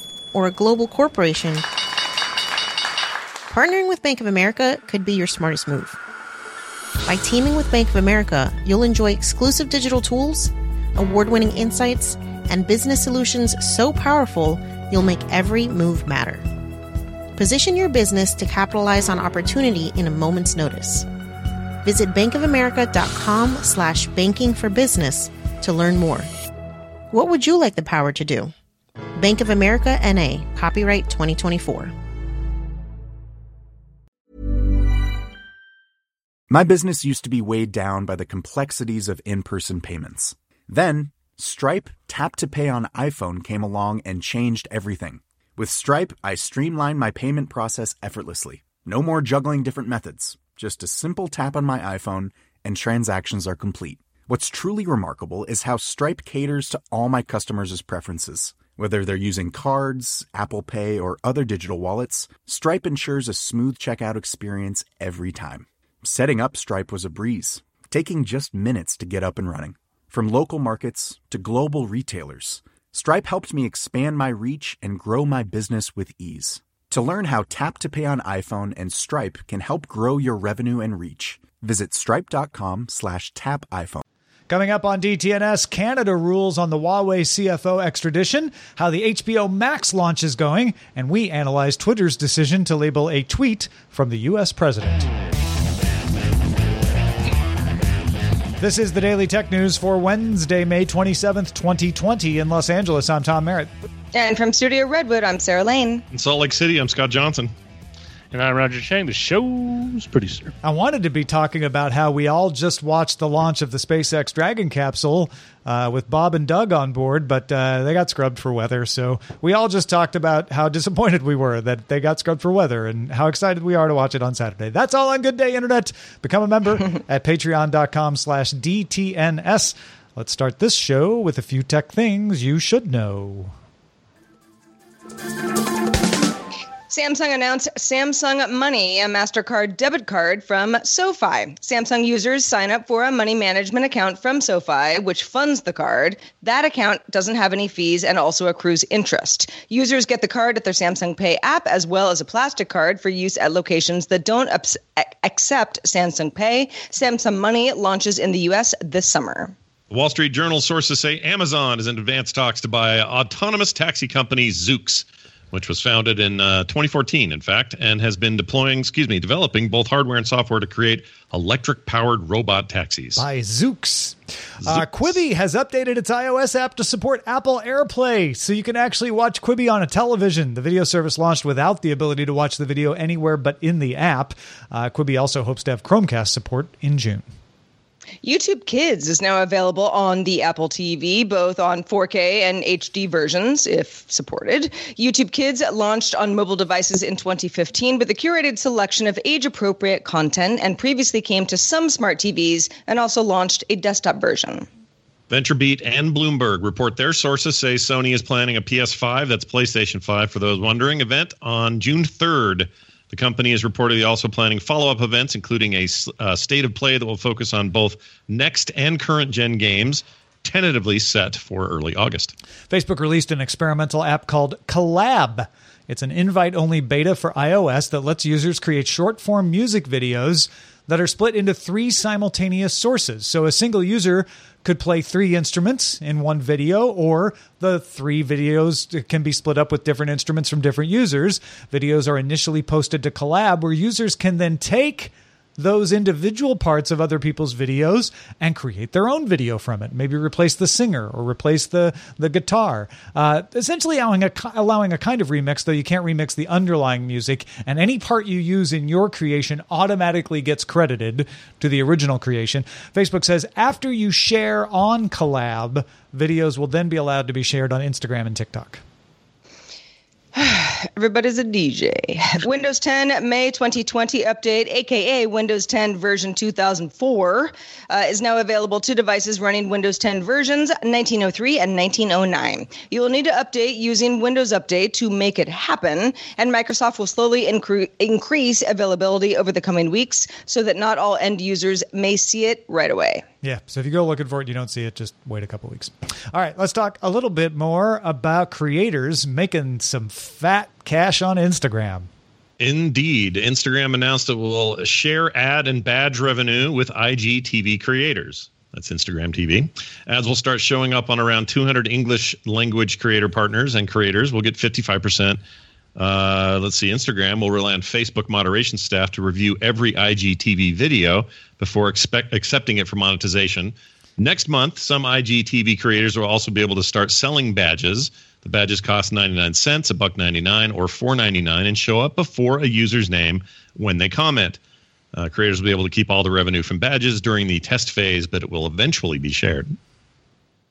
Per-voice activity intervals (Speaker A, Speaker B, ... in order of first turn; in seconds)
Speaker A: 0.3-1.6, 3.5-6.0, 7.0-16.5, 17.4-21.1, 21.8-26.3, 27.1-28.5, 29.2-31.9
Speaker B: 36.5-84.0
Speaker C: 84.5-95.1, 98.6-103.7, 110.6-133.6, 173.2-187.3, 222.7-268.8, 293.4-302.1
Speaker D: 104.1-106.0, 136.9-159.6, 188.2-204.7, 270.3-293.2
Speaker E: 106.1-107.5, 159.9-173.2, 205.3-222.3, 302.6-315.4, 316.0-334.6, 335.1-339.7
Speaker F: 108.3-110.5